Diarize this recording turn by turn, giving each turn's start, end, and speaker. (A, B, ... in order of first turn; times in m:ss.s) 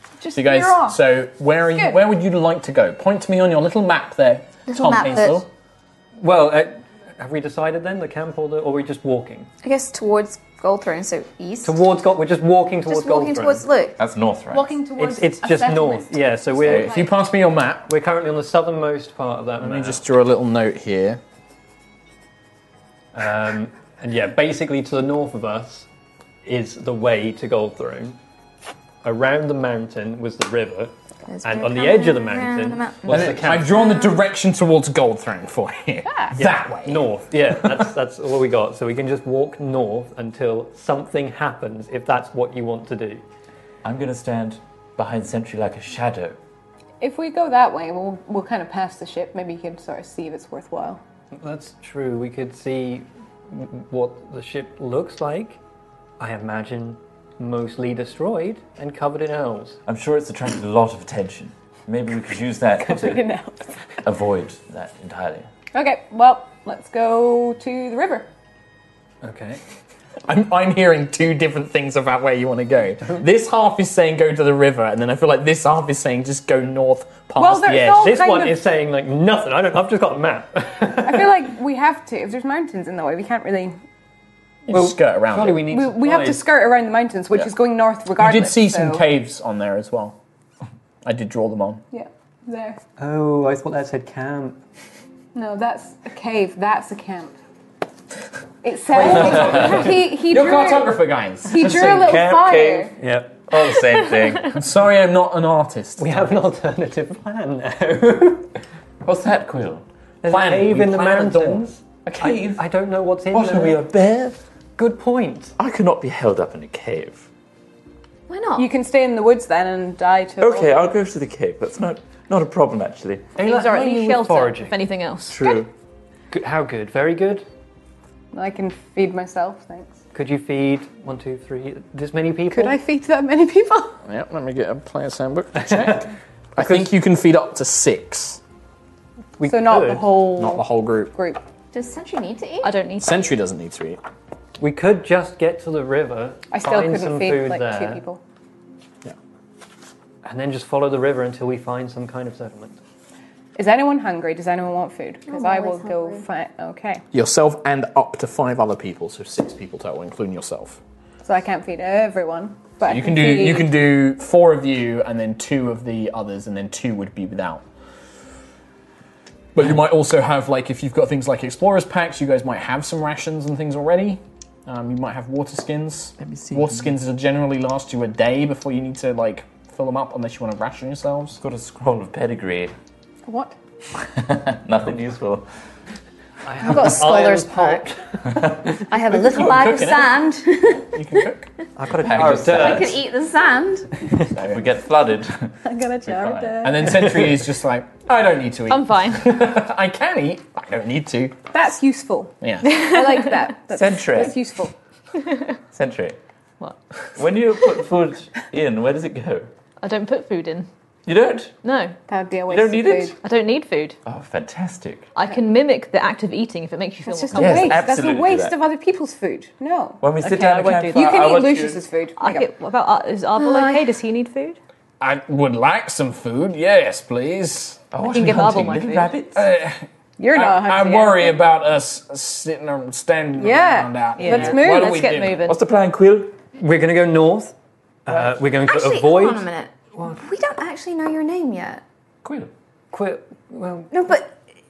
0:00.2-0:01.0 A
0:00.3-0:05.5 B
0:01.7-0:02.0 A
0:04.7-0:05.4 C
0:06.2-0:09.5 D
0:09.6-0:11.8 C
0:11.6-0:13.6 D
0:12.9-0:14.0 C
0:14.0-0:14.8 E
0:14.5-0:17.2 A
0:15.0-0:17.0 D
0:16.7-0:17.9 B
0:17.9-0:20.0 D
0:19.6-0:21.2 B
0:23.1-0:25.9 D
0:26.4-0:28.2 D
0:29.0-0:33.8 D
0:31.3-0:34.2 C
0:33.1-0:37.0 B
0:36.1-0:36.4 A
0:36.3-0:43.2 D
0:43.8-0:46.4 E
0:47.0-0:51.0 A
0:51.3-0:55.6 D
0:56.2-0:59.8 D
0:59.9-1:03.2 E
1:02.8-1:03.7 A
1:04.0-1:05.5 E
1:05.7-1:08.3 A
1:09.2-1:09.6 D
1:10.3-1:18.2 B
1:17.4-1:18.6 A
1:18.0-1:21.4 D
1:21.0-1:23.8 A
1:24.7-1:25.6 B
1:24.7-1:26.4 D
1:25.7-1:29.0 A
1:28.2-1:30.2 B
1:31.0-1:31.8 B
1:31.9-1:32.8 A
1:33.0-1:34.6 D
1:35.4-1:37.4 A
1:38.6-1:43.0 A
1:38.9-1:42.2 B
1:39.4-1:39.8 E
1:41.7-1:42.9 E
1:43.0-1:43.4 D
1:43.5-1:44.6 E
1:44.5-1:46.3 B
1:46.0-1:48.5 D
1:49.0-1:49.8 E
1:50.2-1:53.8 D
1:50.3-1:52.4 B
1:52.2-1:52.6 E
1:53.3-1:54.4 E
1:54.8-1:55.6 D
1:55.6-1:57.3 E
1:58.3-1:58.7 F
1:58.6-2:00.9 A
2:00.4-2:03.3 E
2:03.4-2:04.8 D
2:03.4-2:05.6 F
2:05.3-2:05.7 E
2:06.3-2:07.4 D
2:08.3-2:10.0 A
2:10.1-2:12.8 D
2:12.5-2:14.0 A
2:14.0-2:18.4 B
2:15.6-2:16.0 D
2:16.6-2:16.9 D
2:19.4-2:20.1 D
2:19.4-2:21.4 A
2:20.4-2:21.1 B
2:21.7-2:22.7 C
2:22.6-2:23.2 F
2:23.0-2:24.0 B
2:24.6-2:28.0 D
2:26.5-2:28.2 A
2:30.2-2:32.8 D
2:33.6-2:37.0 A
2:35.3-2:36.2 C
2:37.1-2:40.8 B
2:41.2-2:43.7 A
2:42.9-2:47.6 B
2:49.6-3:01.4 B
2:56.2-2:56.9 E
3:01.4-3:02.7 E
3:03.3-3:03.6 A
3:04.0-3:05.5 E
3:06.4-3:08.5 D
3:06.6-3:07.9 C
3:08.3-3:08.6 E
3:08.8-3:11.3 C
3:09.1-3:10.2 B
3:10.8-3:11.5 B
3:11.8-3:13.0 D
3:12.0-3:13.0 E
3:12.2-3:14.1 C
3:14.3-3:16.7 E
3:14.3-3:14.6 B
3:15.6-3:17.1 A
3:16.6-3:21.4 B
3:18.7-3:19.4 F
3:21.5-3:24.7 A
3:22.4-3:22.9 B
3:22.6-3:23.3 F
3:23.7-3:24.4 E
3:25.2-3:25.5 F
3:25.7-3:26.2 E
3:27.2-3:29.5 E
3:29.8-3:30.7 F
3:31.1-3:31.6 E
3:31.6-3:32.0 F
3:32.1-3:33.2 A
3:32.5-3:33.2 E
3:33.2-3:34.0 F
3:34.0-3:35.1 E
3:35.2-3:37.8 F
3:37.1-3:42.5 A
3:37.3-3:38.6 E
3:40.0-3:41.8 E
3:40.2-3:41.4 F
3:42.2-3:44.6 F
3:43.4-3:43.9 A
3:45.0-3:47.8 B
3:47.9-3:49.4 E
3:48.0-3:49.2 F
3:49.4-3:55.4 B
3:50.2-3:51.4 A
3:53.4-3:55.2 A
3:54.2-3:55.6 F
3:55.4-3:56.3 E
3:56.6-3:57.5 D
3:58.1-4:00.2 D
3:58.6-4:01.8 C
4:02.2-4:02.5 E
4:02.9-4:04.0 D
4:03.9-4:04.4 C